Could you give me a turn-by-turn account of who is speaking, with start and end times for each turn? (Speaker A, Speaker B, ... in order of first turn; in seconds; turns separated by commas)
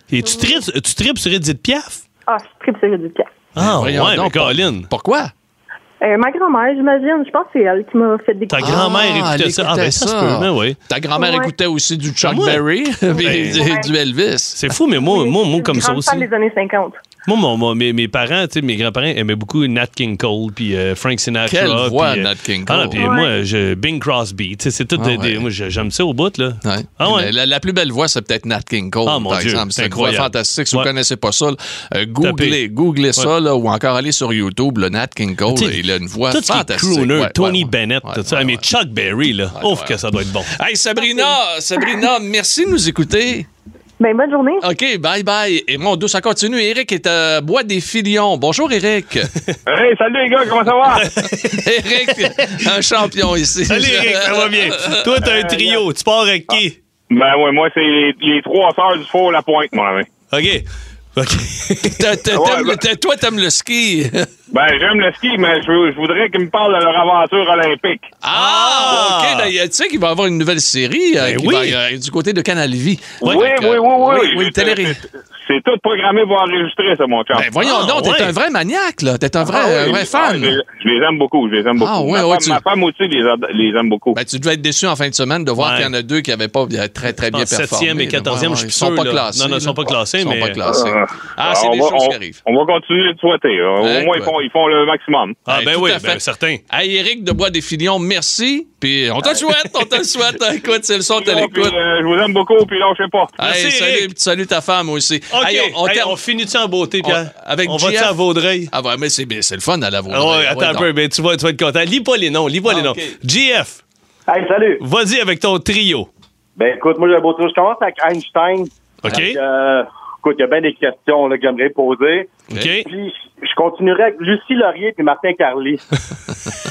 Speaker A: 0.1-2.0, Speaker B: 2.3-3.3, Speaker A: 3.5-4.9, Speaker C: 3.6-5.3, Speaker B: 6.0-8.9, Speaker A: 8.5-10.8, Speaker C: 8.6-14.6, Speaker B: 11.2-11.5, Speaker A: 12.2-12.6, Speaker A: 13.2-13.6, Speaker B: 13.2-13.9, Speaker A: 14.6-16.3, Speaker B: 15.0-17.0, Speaker A: 17.3-27.3, Speaker C: 21.4-23.1, Speaker C: 25.0-25.4, Speaker C: 26.6-38.6, Speaker A: 29.1-30.9, Speaker A: 32.2-32.6, Speaker A: 35.5-35.8, Speaker A: 36.3-40.5, Speaker C: 39.5-40.0, Speaker C: 40.5-43.5, Speaker B: 44.0-44.6, Speaker C: 44.6-49.3, Speaker D: 49.7-51.0, Speaker A: 51.0-51.7, Speaker C: 51.5-55.2, Speaker A: 52.2-52.6, Speaker A: 53.7-56.7, Speaker D: 57.1-60.1, Speaker A: 60.3-60.6, Speaker A: 61.1-62.1, Speaker C: 61.9-64.3, Speaker D: 62.3-62.8, Speaker D: 64.5-68.1, Speaker C: 68.2-75.0, Speaker A: 68.3-69.5, Speaker A: 71.2-71.8, Speaker A: 73.2-73.7, Speaker D: 73.2-77.5, Speaker C: 77.3-80.6, Speaker A: 77.6-78.3, Speaker D: 79.4-84.2, Speaker C: 81.8-82.6, Speaker C: 84.1-92.4, Speaker A: 85.6-85.9, Speaker A: 87.3-90.6, Speaker D: 90.7-95.4, Speaker C: 93.8-94.3, Speaker A: 95.5-96.6, Speaker C: 95.5-101.8, Speaker D: 101.2-103.3, Speaker C: 103.4-106.2, Speaker A: 103.4-104.1, Speaker A: 105.3-108.7, Speaker C: 107.0-108.1, Speaker C: 108.7-110.9, Speaker A: 110.1-113.8, Speaker C: 112.7-113.1, Speaker E: 114.3-114.8, Speaker A: 114.8-116.1, Speaker E: 116.5-125.8, Speaker A: 119.0-119.4, Speaker A: 122.5-122.9